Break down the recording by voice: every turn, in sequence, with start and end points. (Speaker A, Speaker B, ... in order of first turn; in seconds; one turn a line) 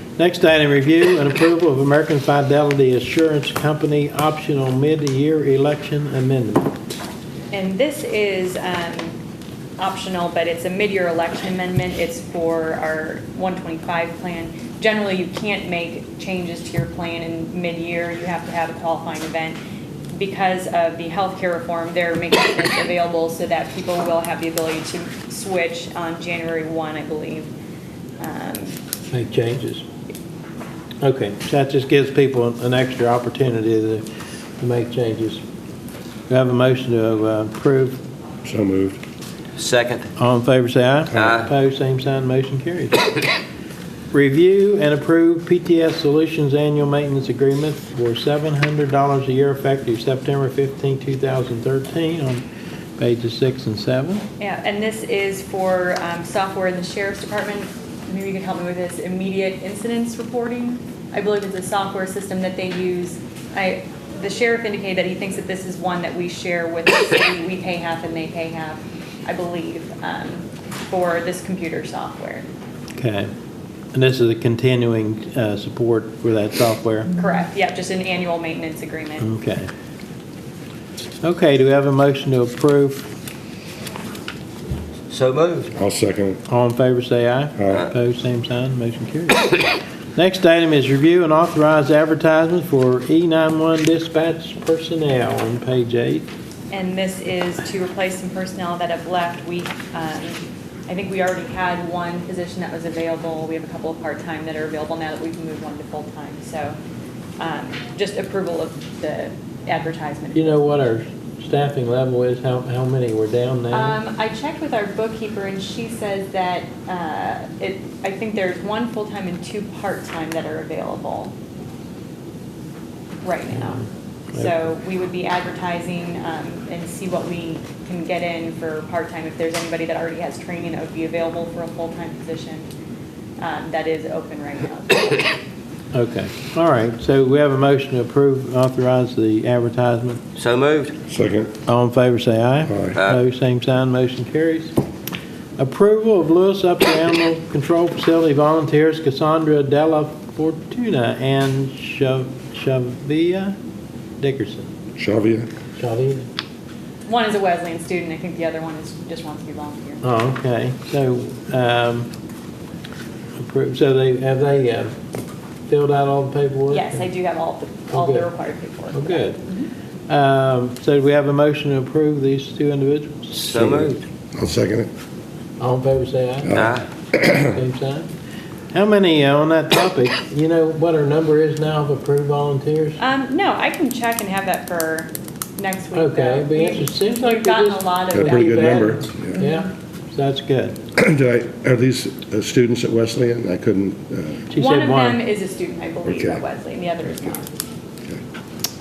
Speaker A: 0.2-6.8
Speaker B: 7.5-9.2
Speaker B: 9.8-19.6
Speaker B: 20.1-27.5
Speaker B: 28.2-28.8
Speaker A: 29.1-29.9
Speaker A: 31.0-34.0
Speaker A: 34.6-35.4
Speaker A: 36.3-38.0
Speaker C: 38.5-39.0
Speaker D: 39.6-40.1
Speaker A: 40.2-43.0
Speaker D: 41.1-41.5
Speaker A: 44.1-52.4
Speaker A: 53.0-54.2
Speaker B: 54.4-72.5
Speaker A: 73.0-73.3
Speaker A: 73.9-77.1
Speaker B: 77.2-79.3
Speaker A: 79.2-79.7
Speaker A: 81.2-83.1
Speaker D: 85.1-85.7
Speaker C: 85.8-86.4
Speaker A: 86.5-89.6
Speaker C: 87.6-87.8
Speaker A: 90.2-96.3
Speaker B: 96.7-106.8
Speaker B: 107.4-110.7
Speaker A: 110.3-114.0
Speaker B: 113.7-121.3
Speaker B: 123.2-132.7
Speaker A: 123.6-123.9
Speaker B: 133.4-135.4
Speaker A: 135.9-140.2
Speaker D: 140.4-140.9
Speaker C: 141.1-141.5
Speaker A: 141.7-144.7
Speaker C: 142.7-143.0
Speaker A: 145.6-153.6
Speaker A: 154.2-154.7
Speaker C: 155.0-155.5
Speaker A: 155.8-156.3
Speaker B: 157.1-160.0
Speaker A: 160.0-162.1
Speaker A: 163.4-165.0
Speaker A: 165.7-167.1
Speaker B: 166.7-169.7
Speaker A: 167.9-168.3
Speaker A: 168.9-169.4
Speaker A: 170.1-174.0
Speaker D: 173.3-173.9
Speaker C: 173.6-174.9
Speaker A: 175.6-176.6
Speaker C: 176.5-177.5
Speaker D: 176.6-176.8
Speaker A: 177.3-178.1
Speaker A: 178.7-183.0
Speaker B: 183.0-189.7
Speaker A: 185.9-190.8
Speaker C: 188.1-189.4
Speaker C: 191.0-194.5
Speaker A: 194.5-195.2
Speaker B: 194.5-197.5
Speaker C: 196.1-196.4